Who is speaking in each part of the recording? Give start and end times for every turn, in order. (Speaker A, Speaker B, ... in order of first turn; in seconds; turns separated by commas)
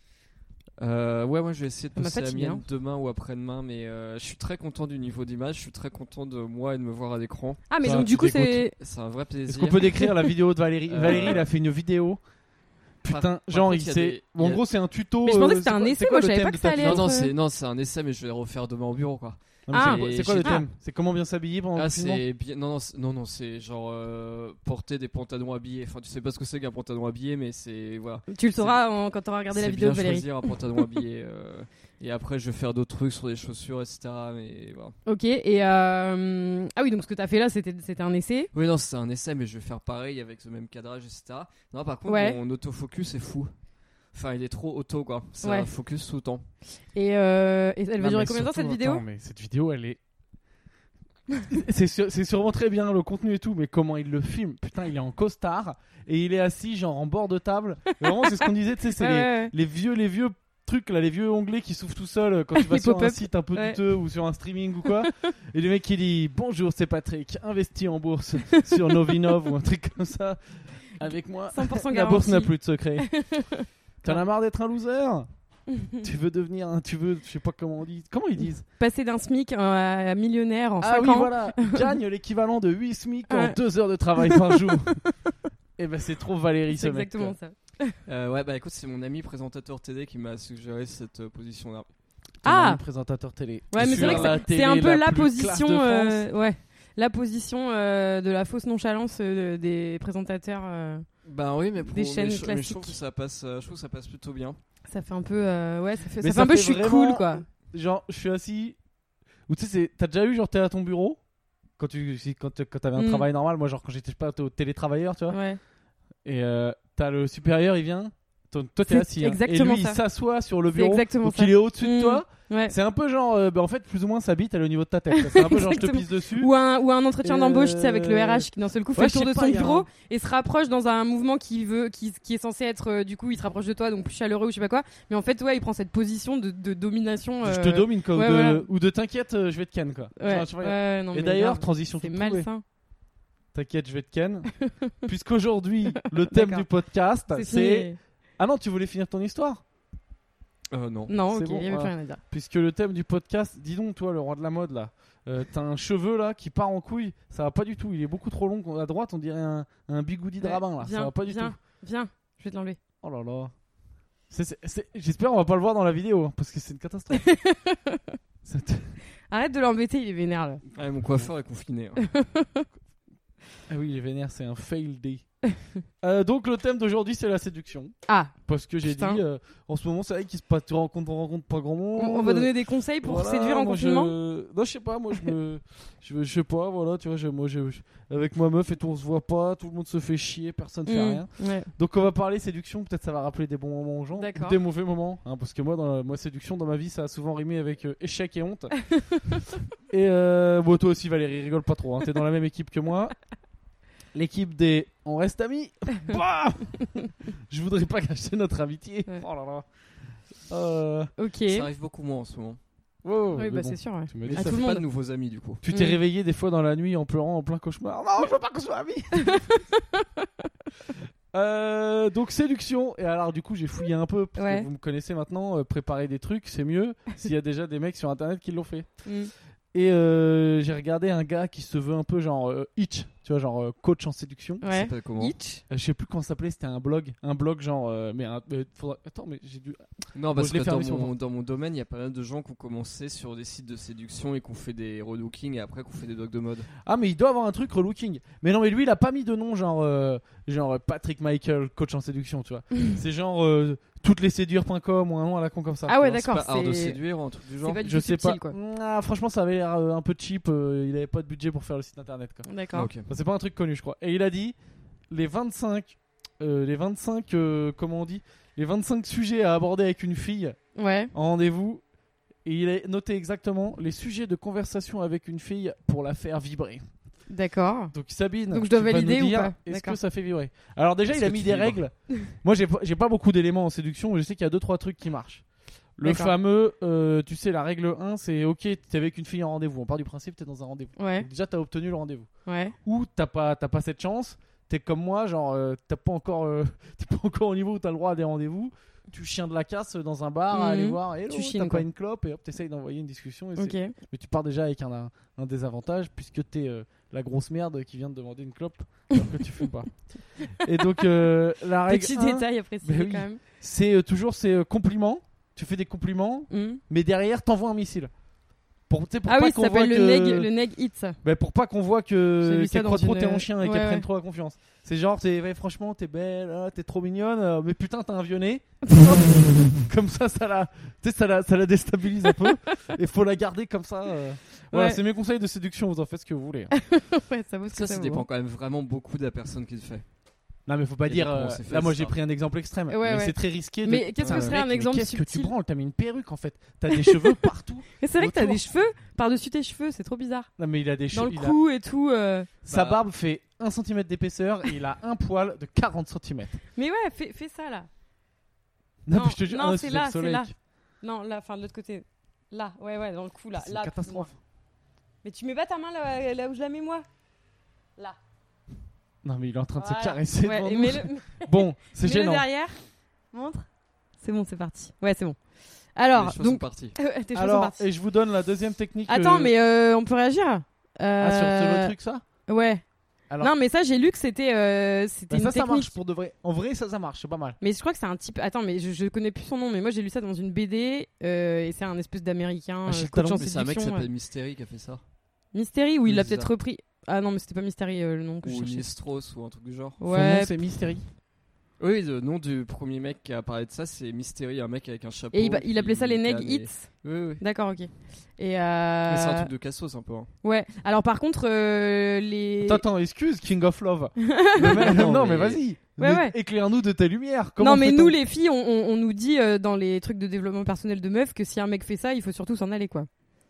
Speaker A: 0.8-10.2, Speaker B: 1.9-2.6, Speaker B: 7.7-8.7, Speaker C: 7.8-8.6, Speaker C: 9.5-12.2, Speaker B: 10.0-10.3, Speaker A: 10.9-11.5, Speaker C: 13.0-17.1, Speaker A: 13.0-14.6, Speaker B: 15.2-17.3, Speaker A: 16.8-20.6, Speaker C: 19.7-22.2, Speaker B: 19.7-20.6, Speaker A: 21.7-28.8, Speaker B: 28.3-30.5, Speaker A: 29.5-35.0, Speaker B: 35.0-38.5, Speaker A: 38.5-43.5, Speaker B: 42.1-42.4, Speaker A: 44.1-46.4, Speaker B: 45.4-45.7, Speaker B: 46.9-49.0, Speaker C: 48.0-50.0, Speaker C: 51.5-73.1, Speaker B: 59.0-59.5, Speaker B: 62.5-63.8, Speaker B: 71.5-74.2, Speaker C: 74.0-75.3, Speaker C: 76.0-78.6, Speaker B: 78.8-81.9, Speaker C: 80.8-85.0, Speaker B: 83.3-83.6, Speaker B: 84.2-85.1, Speaker C: 85.8-87.3, Speaker B: 86.7-87.9, Speaker A: 88.1-91.9, Speaker C: 92.4-96.3, Speaker B: 92.4-92.8, Speaker B: 93.7-101.0, Speaker A: 93.8-94.4, Speaker A: 101.2-104.6, Speaker B: 101.9-103.0, Speaker B: 104.9-107.5, Speaker C: 106.2-108.8, Speaker C: 109.5-111.2, Speaker C: 111.8-115.4, Speaker B: 113.0-113.2, Speaker B: 115.3-115.6, Speaker C: 116.2-126.5, Speaker B: 118.8-120.0, Speaker B: 120.7-122.7, Speaker B: 125.1-138.7, Speaker C: 127.2-129.9, Speaker C: 137.4-142.5, Speaker B: 140.2-142.6, Speaker C: 143.5-144.5, Speaker B: 144.6-144.9, Speaker C: 145.0-149.6, Speaker B: 146.3-146.6, Speaker B: 147.3-148.0, Speaker A: 150.7-151.1, Speaker B: 151.1-152.2, Speaker C: 151.3-161.6, Speaker B: 160.4-162.8, Speaker C: 163.0-163.5, Speaker C: 164.3-167.2, Speaker B: 167.1-168.0, Speaker C: 168.4-168.9, Speaker B: 169.3-170.6, Speaker A: 170.7-172.0, Speaker B: 172.0-172.7, Speaker C: 173.7-175.2, Speaker C: 176.0-177.9, Speaker B: 178.1-179.2, Speaker C: 178.4-198.8, Speaker B: 182.0-184.1, Speaker B: 190.8-191.7, Speaker B: 194.1-194.6, Speaker B: 199.1-199.4, Speaker C: 199.9-203.1, Speaker C: 204.1-209.7, Speaker C: 210.4-211.1, Speaker B: 211.2-211.7, Speaker A: 211.5-212.6, Speaker C: 213.0-214.6, Speaker B: 213.3-214.8, Speaker A: 214.2-215.6, Speaker C: 215.6-219.4, Speaker B: 215.7-216.0, Speaker B: 219.2-220.2, Speaker C: 221.3-229.0, Speaker B: 224.4-224.7, Speaker B: 229.0-229.3, Speaker C: 229.7-234.6, Speaker B: 234.6-235.6, Speaker A: 234.7-235.3, Speaker C: 235.7-241.1, Speaker A: 240.1-246.7, Speaker C: 246.8-256.1, Speaker B: 255.9-257.0, Speaker A: 256.1-257.9, Speaker B: 257.6-258.6, Speaker C: 257.8-264.6, Speaker B: 262.5-262.9, Speaker A: 262.7-263.1, Speaker C: 265.1-270.6, Speaker B: 270.7-271.1, Speaker C: 271.1-271.8, Speaker C: 272.4-276.8, Speaker B: 277.3-277.9, Speaker C: 277.9-285.4, Speaker B: 278.5-280.0, Speaker A: 281.1-281.8, Speaker C: 286.0-292.3, Speaker B: 286.0-286.3, Speaker B: 291.0-291.3, Speaker B: 292.4-292.7, Speaker C: 292.8-318.1, Speaker B: 300.5-301.8, Speaker B: 303.6-303.9, Speaker B: 311.9-313.4, Speaker B: 316.5-316.8, Speaker C: 318.9-320.5, Speaker B: 319.2-321.2, Speaker C: 321.2-336.7, Speaker B: 322.4-324.0, Speaker B: 328.9-329.3, Speaker B: 334.7-335.0, Speaker B: 336.7-338.2, Speaker A: 337.7-340.0, Speaker C: 340.7-348.6, Speaker A: 341.1-342.1, Speaker B: 342.9-345.5, Speaker A: 344.2-344.6, Speaker B: 346.9-347.4, Speaker B: 348.0-350.5, Speaker C: 350.6-351.6, Speaker B: 351.1-352.5, Speaker C: 352.6-356.6, Speaker A: 352.7-353.0, Speaker B: 356.8-357.9, Speaker C: 359.1-360.5, Speaker B: 359.1-364.3, Speaker C: 363.6-364.4, Speaker B: 365.2-367.0, Speaker C: 369.2-372.5, Speaker B: 369.8-373.7, Speaker B: 374.2-375.4, Speaker B: 375.9-377.8, Speaker A: 376.1-376.9, Speaker C: 377.3-379.5, Speaker B: 379.1-381.9, Speaker C: 381.2-382.2, Speaker B: 382.5-382.8, Speaker B: 383.4-385.9, Speaker C: 385.3-387.6, Speaker B: 387.6-394.1, Speaker C: 392.9-393.4, Speaker A: 393.1-395.0, Speaker B: 395.5-398.9, Speaker A: 396.1-396.5, Speaker A: 398.4-400.0, Speaker B: 400.0-400.6, Speaker C: 400.1-401.0, Speaker A: 401.8-407.4, Speaker B: 405.3-409.5, Speaker A: 409.1-410.3, Speaker B: 410.4-412.8, Speaker C: 412.6-418.1, Speaker B: 414.2-414.9, Speaker A: 414.7-415.6, Speaker B: 416.0-416.3, Speaker B: 417.6-423.1